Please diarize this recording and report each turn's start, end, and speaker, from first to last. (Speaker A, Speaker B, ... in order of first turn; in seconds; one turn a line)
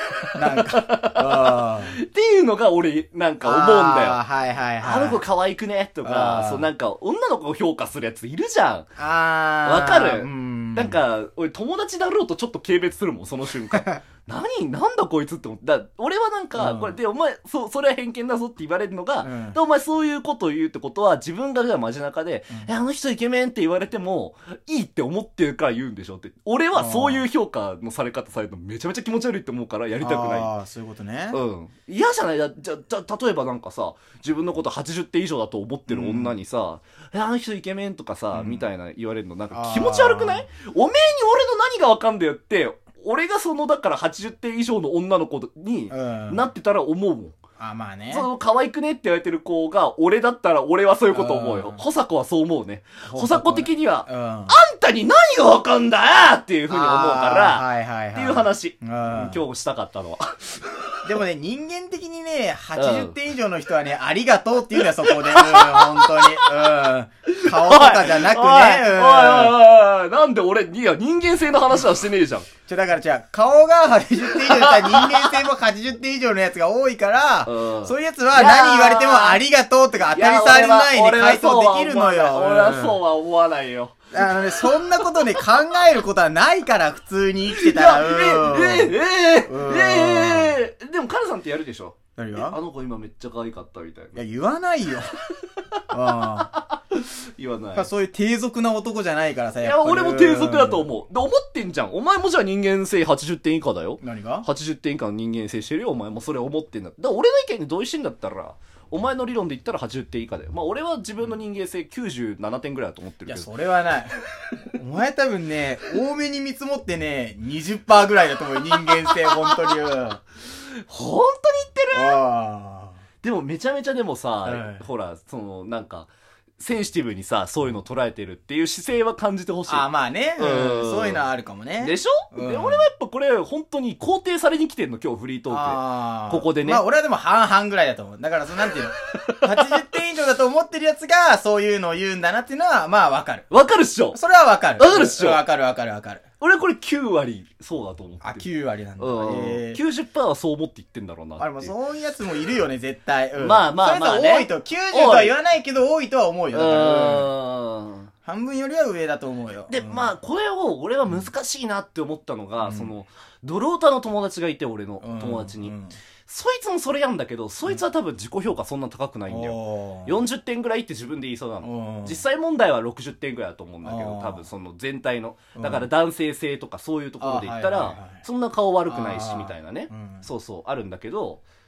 Speaker A: 0.2-4.2
Speaker B: 0.3-2.0
Speaker B: 3.4-5.2
Speaker A: 4.8-8.9
Speaker B: 6.0-6.7
Speaker B: 9.0-11.0
Speaker A: 9.6-30.5
Speaker B: 16.6-17.0
Speaker B: 19.2-19.6
Speaker B: 26.7-27.2
Speaker B: 30.0-31.4
Speaker A: 31.3-47.4
Speaker B: 35.9-36.4
Speaker B: 38.3-38.7
Speaker B: 39.5-40.5
Speaker B: 45.9-46.5
Speaker B: 47.6-48.3
Speaker A: 48.1-61.0
Speaker B: 51.1-51.8
Speaker B: 53.1-54.6
Speaker B: 56.7-59.4
Speaker B: 61.0-69.6
Speaker A: 62.8-63.1
Speaker A: 65.1-66.5
Speaker A: 67.3-72.5
Speaker B: 72.7-83.0
Speaker A: 74.4-75.4
Speaker A: 77.5-79.4
Speaker A: 80.1-84.0
Speaker B: 84.1-90.6
Speaker A: 87.5-94.2
Speaker B: 92.2-92.6
Speaker B: 94.2-95.1
Speaker A: 95.7-97.9
Speaker B: 95.9-96.5
Speaker B: 97.7-100.9
Speaker A: 99.6-113.5
Speaker B: 104.0-104.5
Speaker B: 113.3-114.1
Speaker B: 114.8-120.2
Speaker A: 118.9-119.5
Speaker A: 120.5-122.2
Speaker B: 121.9-123.0
Speaker A: 123.2-131.2
Speaker B: 124.5-124.8
Speaker B: 129.7-132.8
Speaker A: 131.8-136.8
Speaker B: 135.5-143.5
Speaker A: 139.2-139.5
Speaker A: 143.5-144.2
Speaker B: 144.1-146.2
Speaker A: 144.8-145.4
Speaker A: 146.4-148.4
Speaker B: 148.2-149.8
Speaker A: 149.0-151.7
Speaker B: 151.4-157.3
Speaker A: 153.4-155.4
Speaker A: 156.5-158.1
Speaker B: 158.3-160.1
Speaker A: 159.7-165.7
Speaker B: 162.6-162.9
Speaker B: 165.0-165.9
Speaker A: 166.3-181.4
Speaker B: 169.3-170.2
Speaker B: 171.6-172.2
Speaker B: 173.8-174.5
Speaker B: 175.6-175.9
Speaker B: 177.2-178.2
Speaker B: 178.9-180.3